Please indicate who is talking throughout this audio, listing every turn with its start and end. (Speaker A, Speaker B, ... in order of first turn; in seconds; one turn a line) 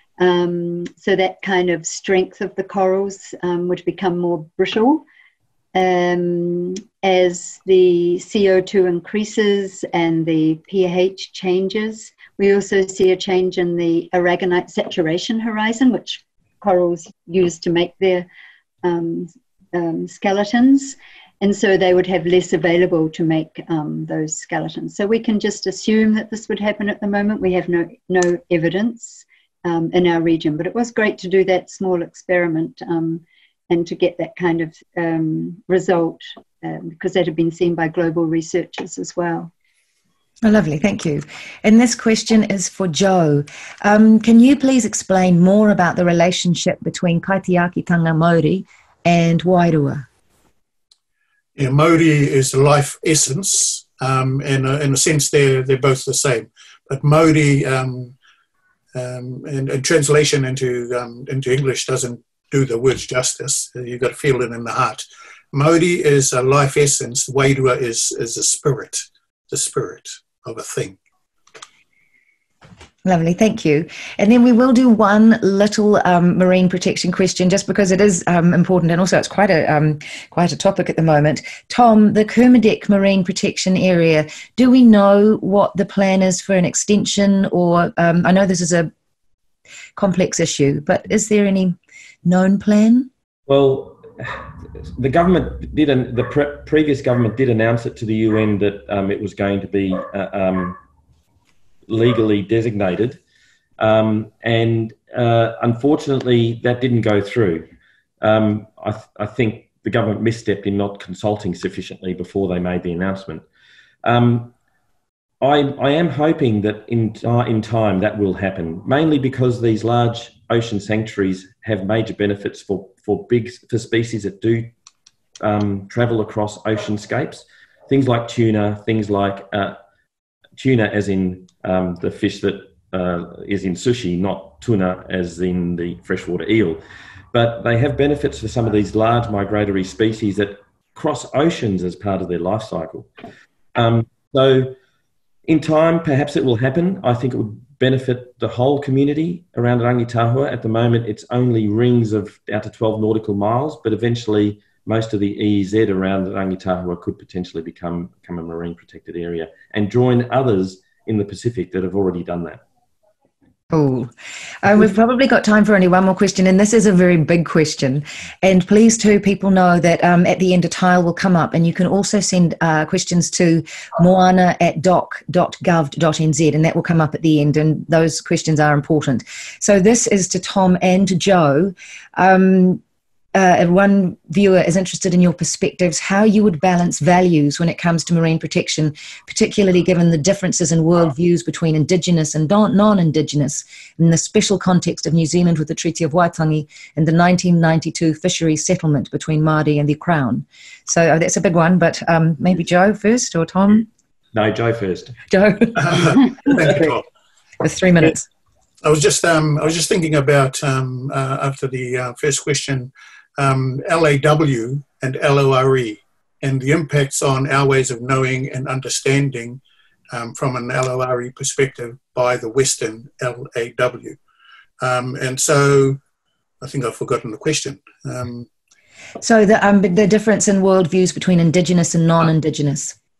Speaker A: 0.2-5.0
Speaker A: 5.7-18.3
Speaker A: 18.8-39.5
Speaker B: 40.4-50.1
Speaker C: 51.5-58.1
Speaker C: 58.9-71.0
Speaker B: 73.0-88.9
Speaker B: 90.0-93.1
Speaker D: 93.5-100.8
Speaker D: 101.9-103.2
Speaker D: 103.8-113.4
Speaker D: 114.0-114.5
Speaker D: 115.4-124.7
Speaker D: 125.4-129.8
Speaker D: 130.6-136.8
Speaker D: 137.3-143.1
Speaker D: 143.7-144.8
Speaker D: 145.4-162.6
Speaker B: 163.7-182.8
Speaker B: 183.3-203.9
Speaker D: 204.3-205.2
Speaker B: 205.3-207.0
Speaker C: 205.8-207.0
Speaker B: 207.6-208.3
Speaker C: 208.8-219.6
Speaker C: 220.1-224.2
Speaker C: 224.8-226.0
Speaker C: 226.6-228.5
Speaker B: 229.2-232.9